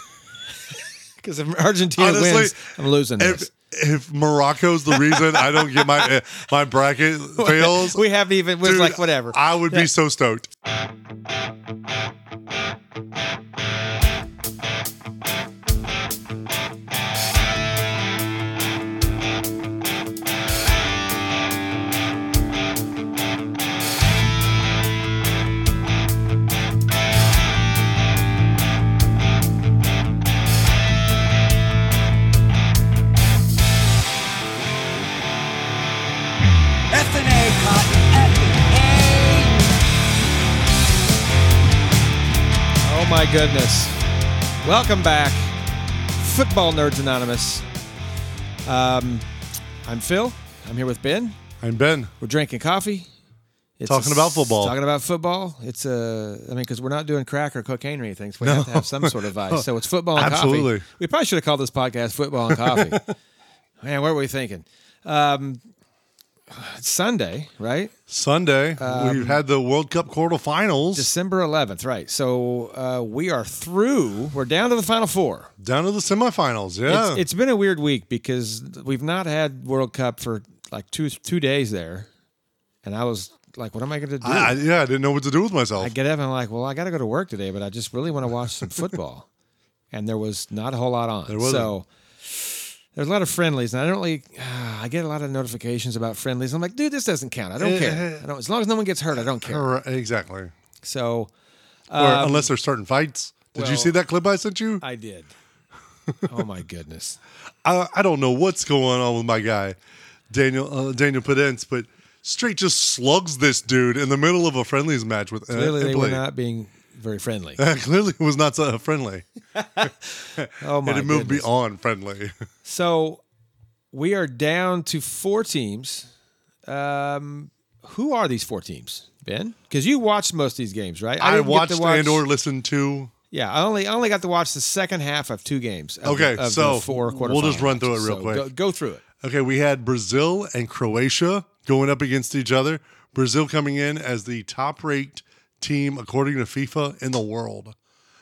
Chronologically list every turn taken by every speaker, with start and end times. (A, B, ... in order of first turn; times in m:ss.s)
0:01.2-0:03.5 A
0:02.0-0:02.6 B
0:03.2-0:08.0 B
0:07.4-0:09.9 A
0:08.6-0:10.5 B
0:36.9-0:39.7 C
0:42.8-0:44.0 A
0:44.6-0:45.6 A
0:46.2-0:47.6 A
0:48.6-0:49.2 A
0:49.8-0:51.4 A
0:51.6-0:52.1 B
0:52.2-0:53.1 A
0:53.8-1:03.0 A
0:53.9-0:54.8 B
0:58.4-1:00.8 B
1:02.5-1:03.1 B
1:03.8-1:05.6 A
1:06.5-1:07.9 A
1:08.1-1:11.1 B
1:08.8-1:09.4 A
1:10.9-1:15.5 A
1:15.6-1:17.2 B
1:16.9-1:22.1 A
1:22.8-1:24.6 A
1:24.2-1:25.9 B
1:25.8-1:29.3 A
1:29.9-1:39.6 A
1:31.3-1:31.7 B
1:37.6-1:38.2 B
1:39.1-1:40.5 B
1:40.8-1:41.3 A
1:41.9-1:42.5 A
1:41.9-1:44.8 B
1:43.5-1:43.9 A
1:44.8-1:45.3 A
1:46.3-1:47.2 A
1:47.6-1:49.8 B
1:50.3-1:56.2 B
1:55.5-1:57.6 A
1:57.6-1:59.2 B
1:59.6-1:59.9 A
2:00.4-2:02.3 B
2:00.6-2:01.5 A
2:02.6-2:03.2 A
2:03.9-2:06.1 A
2:06.7-2:12.2 A
2:11.2-2:13.1 B
2:13.3-2:19.0 A
2:16.0-2:18.5 B
2:19.2-2:27.7 B